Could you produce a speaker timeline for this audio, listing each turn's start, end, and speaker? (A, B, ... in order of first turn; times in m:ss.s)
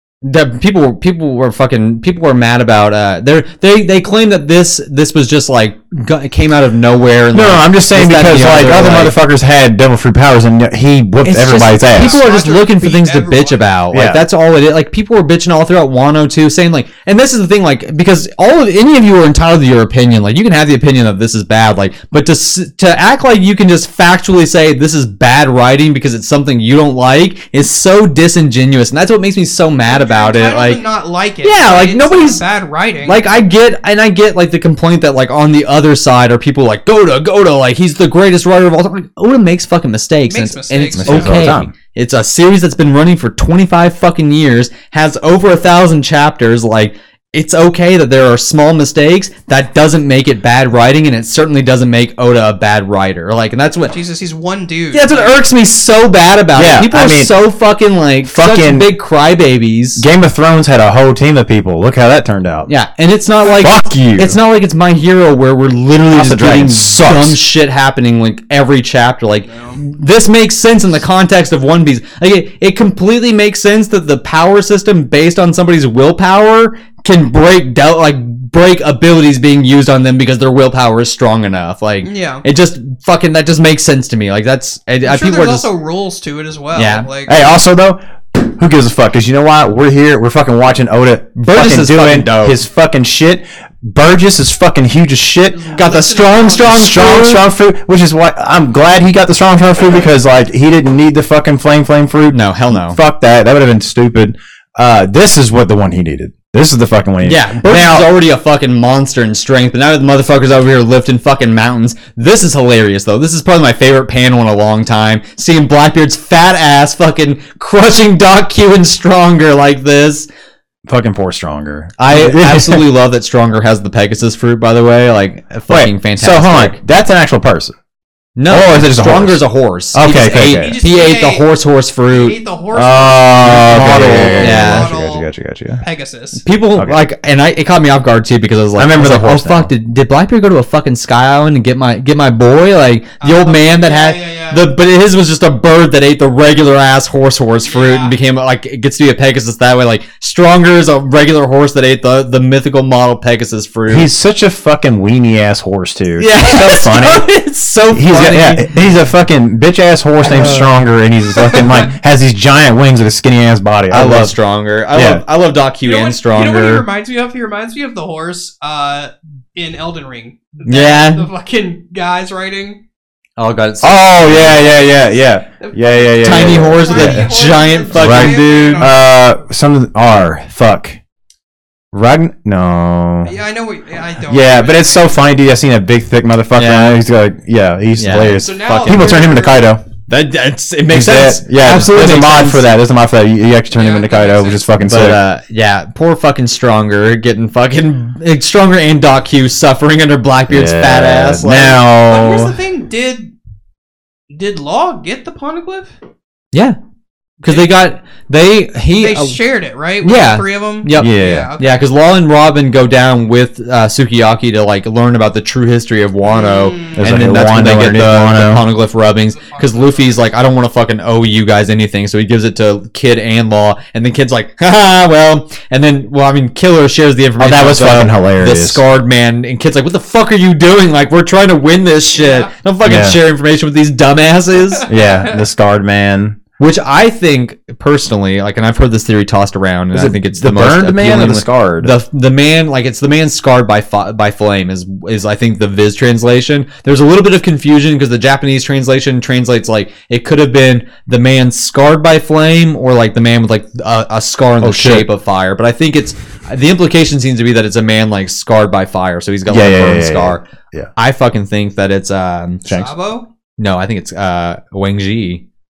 0:00.2-0:09.2 A
0:07.3-0:12.2 B
0:11.2-0:30.8 A
0:11.8-0:13.7 C
0:13.9-0:14.2 B
0:29.8-0:33.2 C
0:31.4-0:32.4 A
0:33.0-0:53.9 A
0:40.3-0:41.5 C
0:41.0-0:41.7 B
0:53.9-0:55.4 C
0:54.9-1:00.0 A
0:56.5-0:57.3 B
0:58.2-0:58.9 B
1:00.0-1:02.7 B
1:02.7-1:25.7 A
1:03.4-1:03.8 C
1:03.6-1:04.4 B
1:06.1-1:07.4 B
1:09.4-1:09.8 C
1:22.0-1:22.4 C
1:25.0-1:27.5 C
1:26.7-1:27.1 A
1:27.3-1:35.6 B
1:31.4-1:32.6 A
1:35.5-1:37.1 C
1:35.7-1:37.4 A
1:36.6-1:48.1 B
1:42.3-1:43.0 A
1:47.2-2:00.3 A
2:00.8-2:02.8 B
2:02.0-2:06.8 A
2:05.7-2:07.7 B
2:08.4-2:12.4 A
2:08.5-2:10.8 B
2:10.2-2:11.5 C
2:12.1-2:15.3 C
2:12.7-2:15.8 B
2:13.4-2:14.9 A
2:15.8-2:16.4 C
2:16.4-2:34.1 A
2:16.8-2:17.1 B
2:18.8-2:19.7 B
2:23.2-2:24.7 C
2:27.6-2:28.2 C
2:33.9-2:37.3 B
2:36.2-2:38.8 A
2:37.9-2:44.3 B
2:40.2-2:40.8 A
2:41.4-2:41.6 C
2:43.9-2:46.8 A
2:44.9-2:45.2 B
2:45.8-2:52.8 C
2:50.6-2:51.3 A
2:53.4-2:54.6 A
2:53.8-2:57.3 B
2:54.3-2:59.0 C
2:56.2-2:58.5 A
2:57.9-3:01.0 B
3:01.9-3:03.3 B
3:03.2-3:05.1 C
3:04.3-3:09.8 B
3:06.5-3:07.0 A
3:08.0-3:08.4 A
3:08.3-3:09.7 C
3:10.1-3:12.7 A
3:10.9-3:15.2 B
3:13.7-3:14.7 C
3:14.8-3:21.8 A
3:20.5-3:22.6 B
3:21.9-3:23.3 C
3:24.3-3:25.9 C
3:27.4-3:29.4 A
3:29.0-3:31.8 C
3:30.0-3:54.9 A
3:31.0-3:31.5 B
3:36.2-3:37.1 C
3:37.0-3:38.6 B
3:39.3-3:40.3 C
3:47.4-3:48.8 B
3:52.1-3:52.5 C
3:52.8-3:53.2 B
3:54.8-3:55.4 C
3:54.9-3:56.4 B
3:56.6-4:22.6 A
3:59.9-4:01.9 B
4:14.6-4:15.1 B
4:19.5-4:20.9 B
4:22.7-4:23.3 C
4:23.6-4:25.4 A